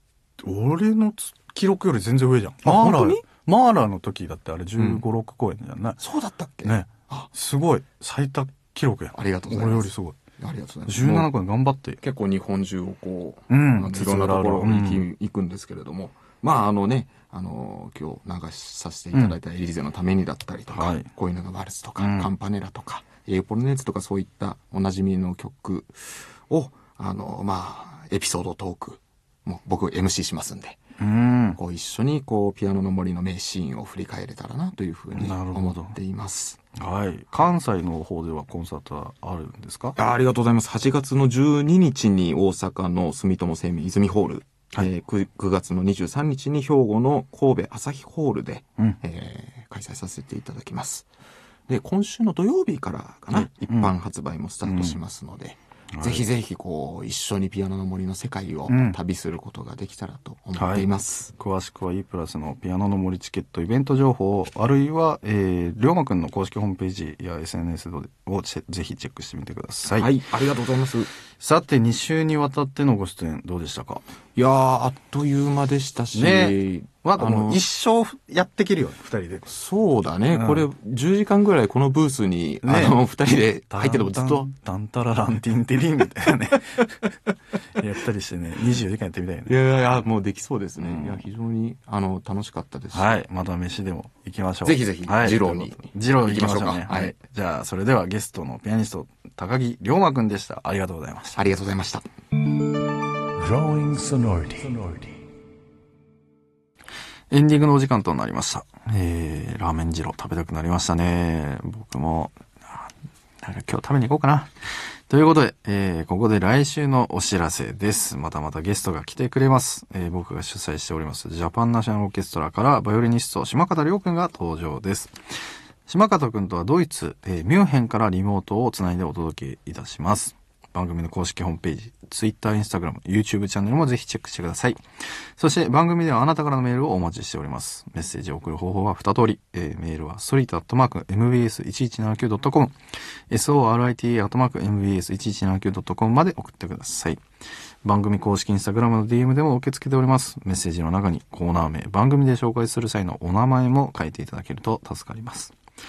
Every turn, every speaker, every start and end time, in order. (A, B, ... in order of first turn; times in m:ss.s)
0:00.4-0:06.0 A
0:02.6-0:03.2 B
0:04.8-0:05.0 B
0:06.0-0:07.3 B
0:06.6-0:10.2 A
0:09.1-0:11.3 B
0:10.8-0:12.0 A
0:12.0-0:30.8 B
0:13.5-0:15.0 A
0:20.7-0:21.1 A
0:22.0-0:22.3 A
0:31.0-0:31.6 A
0:31.6-0:36.6 B
0:35.1-0:36.0 A
0:36.7-0:40.0 A
0:40.0-0:51.0 B
0:51.7-1:01.3 B
0:53.3-0:53.9 A
0:54.6-0:55.0 A
0:55.9-0:56.2 A
0:58.7-0:59.0 A
1:00.6-1:10.1 A
1:09.9-1:11.1 B
1:11.4-1:14.0 A
1:14.4-1:17.6 B
1:16.1-1:19.5 A
1:19.4-1:24.5 B
1:20.3-1:20.6 A
1:22.6-1:23.0 A
1:23.7-1:27.1 A
1:27.7-1:30.0 A
1:29.5-1:33.1 B
1:30.8-1:31.2 A
1:32.9-1:41.4 A
1:34.6-1:37.1 B
1:41.4-1:42.0 B
1:43.3-1:45.1 A
1:47.3-1:52.9 A
1:53.4-1:54.5 A
1:55.1-2:05.1 A
2:05.9-2:14.8 A
2:15.4-2:22.7 A
2:23.3-2:27.2 A
2:27.8-2:35.5 A